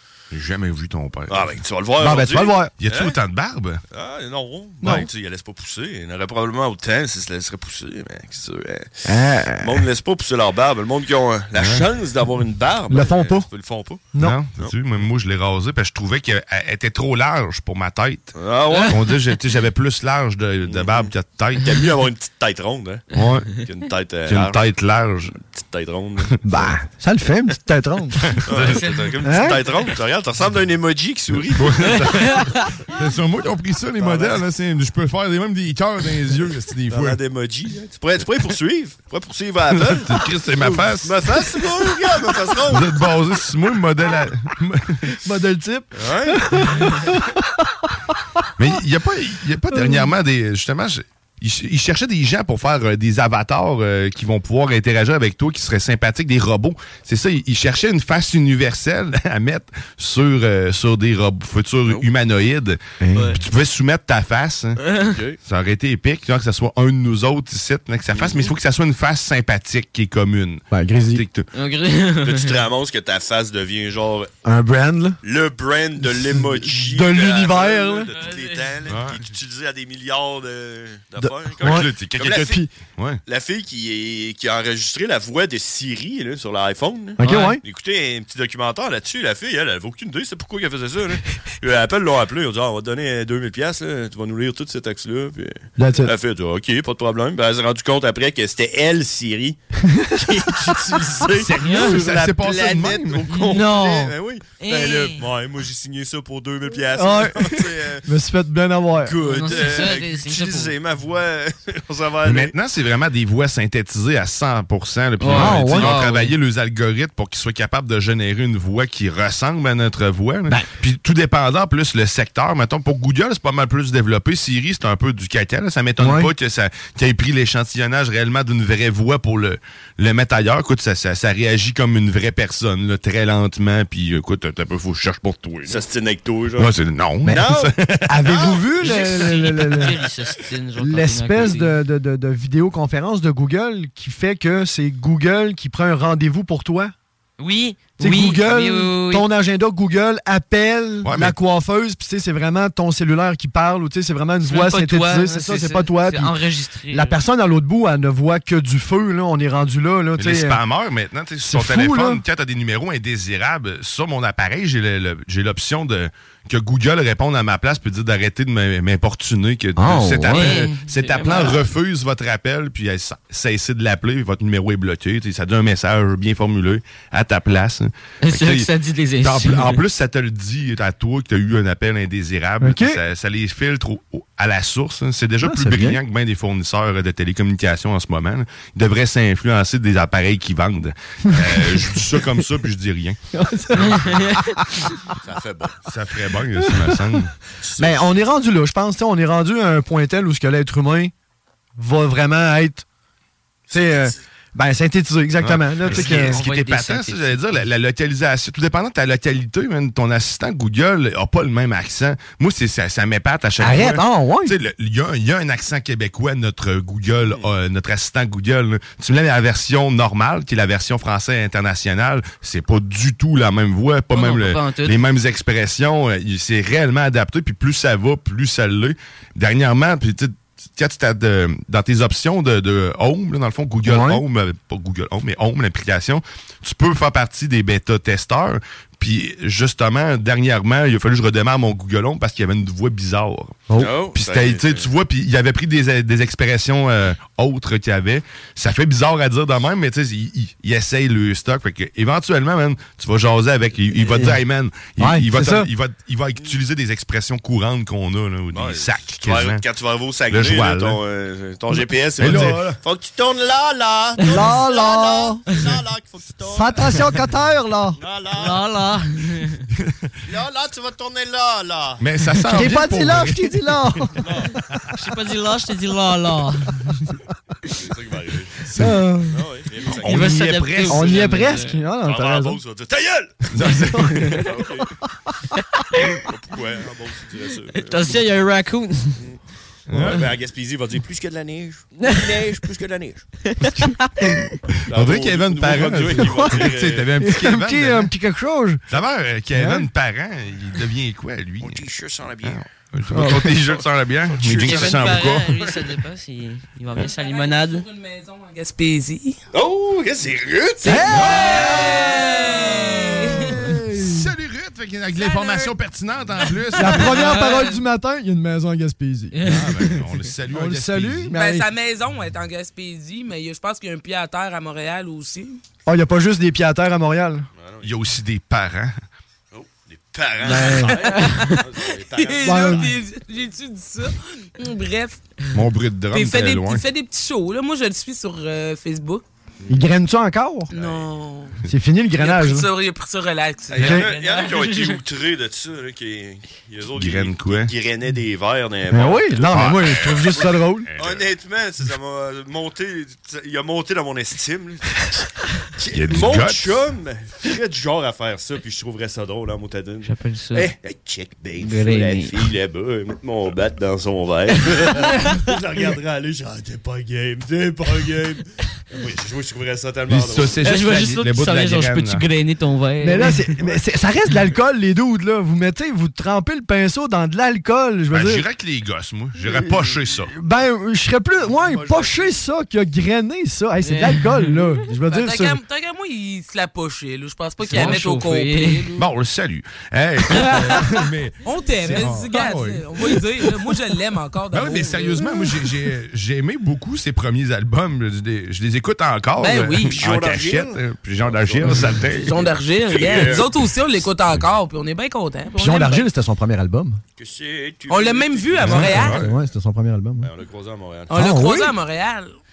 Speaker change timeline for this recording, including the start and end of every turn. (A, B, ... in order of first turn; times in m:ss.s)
0:00.3-0:01.6 A
0:01.3-0:03.2 B
0:02.0-0:02.7 C
0:02.7-0:03.8 A
0:03.9-0:09.0 B
0:09.1-0:09.8 C
0:09.6-0:14.8 B
0:11.6-0:11.9 A
0:12.9-0:13.5 C
0:14.2-0:18.3 A
0:18.3-0:19.0 B
0:18.9-0:21.9 A
0:20.7-0:21.1 B
0:21.6-0:24.6 B
0:23.1-0:23.6 A
0:24.3-0:25.4 A
0:25.4-0:26.7 B
0:26.4-0:28.3 C
0:28.2-0:29.1 A
0:28.5-0:32.4 B
0:28.5-0:29.1 D
0:29.2-0:29.6 C
0:31.5-0:37.2 A
0:32.2-0:32.6 D
0:34.0-0:34.5 B
0:36.9-0:43.0 B
0:39.7-0:41.9 A
0:42.6-0:45.1 A
0:45.2-0:48.4 C
0:46.0-0:46.4 B
0:48.6-1:04.8 A
0:49.7-0:50.1 C
1:03.0-1:03.4 C
1:04.8-1:05.1 D
1:05.1-1:05.4 B
1:05.4-1:11.5 A
1:08.1-1:08.5 B
1:10.7-1:11.2 C
1:11.6-1:12.6 D
1:12.2-1:14.3 B
1:14.4-1:15.2 C
1:15.2-1:22.6 B
1:16.0-1:18.1 C
1:18.1-1:18.8 D
1:18.9-1:19.3 A
1:21.2-1:21.9 C
1:21.6-1:23.2 A
1:22.4-1:22.7 C
1:23.3-1:39.6 B
1:27.2-1:27.6 C
1:27.2-1:27.6 D
1:35.8-1:36.1 C
1:39.9-1:40.6 C
1:40.2-1:48.0 B
1:41.4-1:43.3 A
1:41.6-1:42.0 D
1:43.3-1:45.2 D
1:47.0-1:49.2 C
1:49.0-1:52.6 B
1:49.2-1:50.7 D
1:52.2-2:15.8 A
1:55.2-1:56.4 D
1:55.3-1:56.0 C
2:06.0-2:06.3 C
2:15.7-2:16.7 B
2:16.6-2:18.4 A
2:17.3-2:17.7 B
2:18.1-2:19.9 C
2:18.3-2:19.3 B
2:18.8-2:21.8 D
2:20.8-2:26.9 C
2:27.4-2:29.3 D
2:28.0-2:36.4 C
2:31.0-2:31.4 A
2:34.4-2:37.2 D
2:36.9-2:40.6 C
2:40.2-2:58.7 A
2:41.5-2:42.2 C
2:49.8-2:50.6 C
2:50.3-2:51.6 D
2:58.2-2:59.8 D
2:59.2-3:13.2 A
3:02.6-3:03.0 C
3:05.4-3:06.0 C
3:11.3-3:11.6 C
3:13.3-3:14.9 C
3:13.8-3:14.1 A
3:15.2-3:15.8 B
3:15.9-3:17.3 A
3:17.6-3:18.2 B
3:17.8-3:21.1 C
3:21.8-3:22.8 C
3:23.7-3:24.2 B
3:23.7-3:26.4 C
3:25.4-4:19.6 A
3:25.9-3:27.6 D
3:33.6-3:34.5 C
3:37.2-3:37.5 B
3:44.1-3:45.0 D
3:53.8-3:54.2 C
4:03.8-4:04.9 B
4:15.0-4:15.7 C
4:18.5-4:27.2 B
4:20.3-4:21.0 A
4:22.2-4:22.8 A
4:24.3-4:25.4 C
4:26.5-4:28.0 C
4:28.0-4:28.6 B
4:28.3-4:29.6 D
4:30.2-4:32.0 B
4:32.0-4:33.8 A
4:32.5-4:34.1 C
4:34.2-4:34.5 B
4:35.0-4:36.9 D
4:37.8-4:38.7 B
4:38.6-4:39.0 A
4:38.8-4:39.4 C
4:39.3-4:40.5 B
4:40.0-4:41.8 D
4:40.0-4:41.2 A
4:40.9-4:42.6 C
4:42.0-4:43.5 B
4:43.5-4:44.5 A
4:44.0-4:44.4 C
4:44.4-4:44.9 B
4:46.2-4:48.2 B
4:47.8-4:49.2 D
4:49.9-4:50.3 A
4:49.9-4:53.3 B
4:53.5-4:54.3 D
4:54.9-4:58.1 A
4:54.9-4:57.1 B
4:56.2-4:56.6 C
4:57.2-4:58.8 C
4:58.9-5:01.8 A
4:59.6-4:59.9 C
5:01.6-5:02.6 B
5:02.4-5:05.6 A
5:03.1-5:03.5 C
5:03.4-5:05.3 B
5:04.5-5:07.9 D
5:07.0-5:09.4 E
5:09.5-5:11.0 B
5:10.8-5:13.5 E
5:10.8-5:12.1 C
5:11.1-5:12.0 A
5:13.3-5:14.3 C
5:14.0-5:17.4 A
5:15.2-5:15.8 E
5:16.4-5:16.7 E
5:16.8-5:19.4 C
5:17.1-5:17.7 D
5:19.3-5:20.1 D
5:19.4-5:21.3 A
5:20.5-5:21.7 C
5:21.3-5:25.6 E
5:25.9-5:27.5 C
5:27.6-5:28.0 B
5:27.8-5:28.9 A
5:29.5-5:33.0 B
5:30.4-5:31.5 C
5:32.2-5:35.2 E
5:32.4-5:32.9 C
5:35.5-5:36.8 A
5:36.1-5:39.2 E
5:39.7-5:40.7 C
5:40.7-5:41.1 B
5:40.7-5:41.6 E
5:41.7-5:42.7 C
5:42.2-5:44.7 E
5:43.7-5:55.0 B
5:43.8-5:44.1 C
5:44.4-5:44.9 D
5:47.0-5:47.7 A
5:48.9-5:50.9 C
5:49.5-5:51.3 A
5:55.8-6:10.8 B
5:55.9-5:56.8 A
6:00.0-6:00.7 D
6:01.6-6:02.4 D
6:05.0-6:05.4 D
6:10.1-6:12.2 A
6:10.6-6:13.4 D
6:13.0-6:18.4 C
6:18.1-6:20.3 A
6:19.4-6:20.2 B
6:20.4-6:25.6 C
6:21.4-6:22.4 B
6:23.8-6:24.6 D
6:25.1-6:29.0 E
6:27.6-6:28.9 D
6:29.0-6:33.5 A
6:30.4-6:30.8 D
6:31.4-6:35.4 E
6:34.5-6:42.5 A
6:39.4-6:40.0 E
6:39.9-6:43.6 B
6:42.2-6:46.1 E
6:45.6-6:47.0 C
6:47.2-6:49.2 B
6:47.9-6:49.2 E
6:48.6-6:49.3 A
6:48.8-6:50.3 C
6:50.2-6:51.1 B
6:51.1-6:51.7 C
6:51.1-6:52.3 E